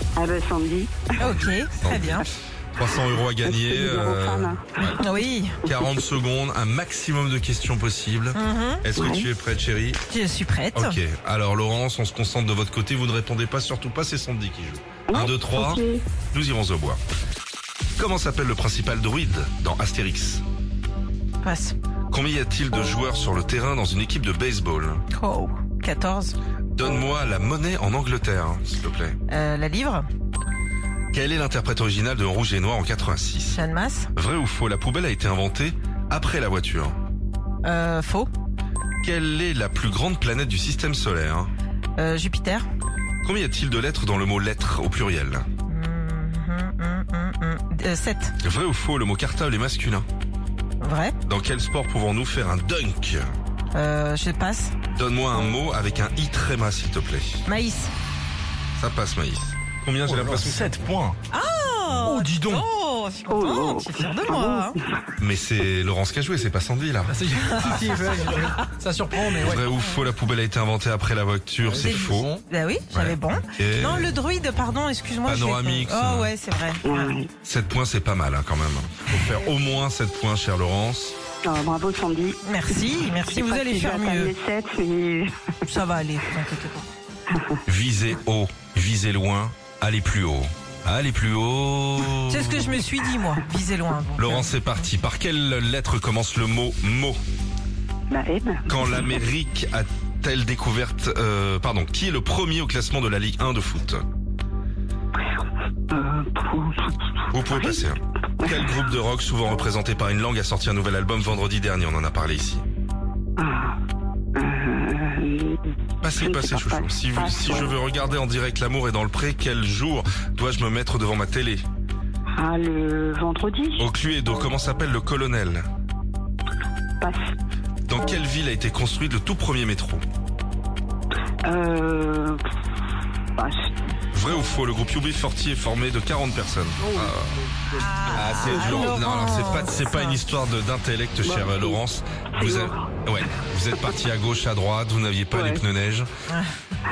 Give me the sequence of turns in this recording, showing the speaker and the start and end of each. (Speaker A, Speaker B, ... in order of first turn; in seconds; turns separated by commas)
Speaker A: 0.1-1.2, Speaker B: 1.2-2.3, Speaker C: 1.2-5.0, Speaker A: 3.4-5.1, Speaker B: 5.0-5.6, Speaker C: 5.6-10.0, Speaker B: 8.3-8.8, Speaker A: 9.0-9.2, Speaker B: 10.1-10.9, Speaker C: 10.7-15.8, Speaker A: 15.1-16.0, Speaker C: 16.3-17.0, Speaker C: 18.0-20.4, Speaker B: 21.4-21.7, Speaker C: 22.1-25.0, Speaker B: 25.1-26.4, Speaker C: 26.7-29.2, Speaker B: 29.3-30.1, Speaker C: 31.1-33.6, Speaker B: 33.5-34.1, Speaker C: 34.1-37.0, Speaker B: 37.6-38.3, Speaker C: 39.0-41.5, Speaker B: 42.0-42.6, Speaker C: 43.2-45.5, Speaker B: 45.7-48.3, Speaker C: 48.4-50.0, Speaker B: 50.8-51.1, Speaker C: 51.2-53.2, Speaker B: 53.7-54.7, Speaker C: 54.9-57.4, Speaker B: 57.5-57.9, Speaker C: 58.8-60.7, Speaker D: 60.2-61.2, Speaker B: 61.3-64.8, Speaker D: 62.1-62.6, Speaker A: 63.3-64.8, Speaker C: 65.2-68.0, Speaker D: 67.1-69.6, Speaker C: 69.4-72.3, Speaker B: 71.8-77.1, Speaker D: 71.9-72.2, Speaker C: 72.9-74.2, Speaker C: 75.2-76.3, Speaker A: 76.8-77.3, Speaker C: 77.3-81.2, Speaker A: 81.4-82.4, Speaker B: 82.4-84.3, Speaker A: 83.3-85.3, Speaker B: 85.7-86.8, Speaker C: 87.7-92.9, Speaker B: 92.3-94.5, Speaker C: 94.2-97.2, Speaker A: 98.1-99.0, Speaker C: 98.7-104.0, Speaker A: 105.9-107.0, Speaker C: 107.3-112.6, Speaker A: 113.4-113.8, Speaker A: 114.3-115.6, Speaker C: 116.0-121.6, Speaker A: 116.2-117.7, Speaker A: 122.3-123.9, Speaker C: 123.8-125.6, Speaker C: 127.9-130.0, Speaker A: 131.4-132.4, Speaker A: 133.3-133.6, Speaker C: 134.1-137.2, Speaker B: 137.8-140.2, Speaker C: 138.1-146.1, Speaker A: 138.3-139.0, Speaker A: 141.2-141.8, Speaker A: 142.4-142.7, Speaker A: 145.3-145.6